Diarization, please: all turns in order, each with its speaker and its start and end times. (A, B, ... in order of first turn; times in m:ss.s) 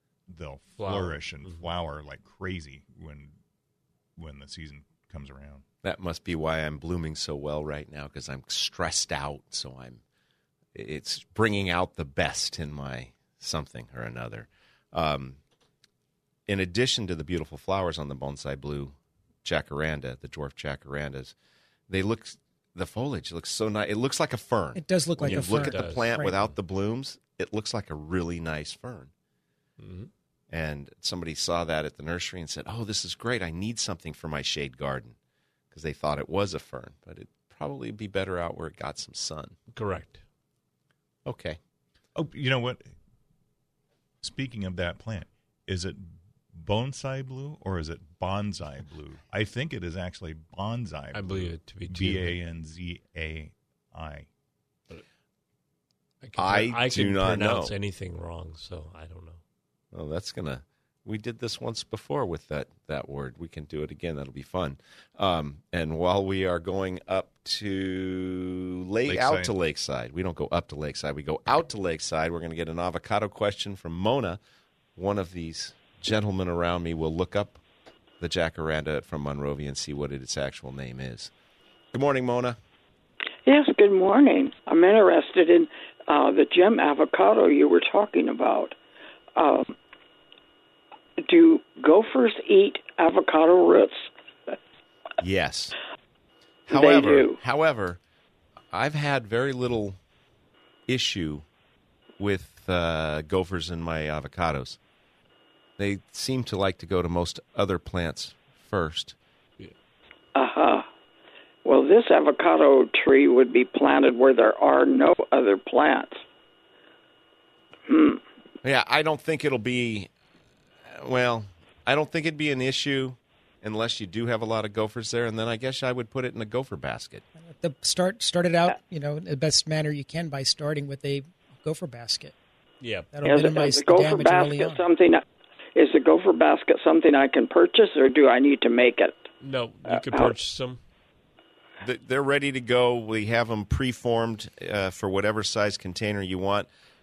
0:00.3-0:03.4 A
0:00.8-0:01.6 B
0:04.2-0:05.6 A
0:05.8-0:10.0 C
0:10.8-0:15.4 C
0:16.5-0:21.4 C
0:21.9-0:29.1 C
0:24.8-0:26.4 D
0:25.2-0:26.4 B
0:29.8-0:30.1 B
0:30.5-0:35.2 C
0:35.7-0:39.6 C
0:39.7-0:40.2 B
0:41.3-0:41.6 C
0:42.2-0:42.9 A
0:44.2-0:54.3 A
0:51.1-0:52.4 B
0:56.2-0:59.4 B
0:56.4-0:57.7 C
0:59.9-1:14.4 C
1:09.1-1:09.5 A
1:15.0-1:17.6 C
1:18.2-1:21.3 C
1:21.9-1:22.6 C
1:23.5-1:28.8 E
1:29.4-1:29.8 E
1:31.3-1:34.1 E
1:35.2-1:35.7 C
1:36.7-1:38.0 C
1:36.7-1:37.4 E
1:38.7-1:40.0 C
1:40.9-1:41.5 C
1:42.2-1:44.8 C
1:45.8-1:49.2 C
1:50.4-1:50.8 E
1:51.6-1:56.2 E
1:57.9-1:58.2 E
1:58.6-2:00.1 C
2:00.9-2:07.2 C
2:07.4-2:12.4 D
2:12.8-2:13.1 B
2:13.1-2:14.8 D
2:13.2-2:15.2 E
2:15.8-2:19.3 E
2:19.4-2:20.8 B
2:19.9-2:20.4 E
2:21.8-2:26.7 C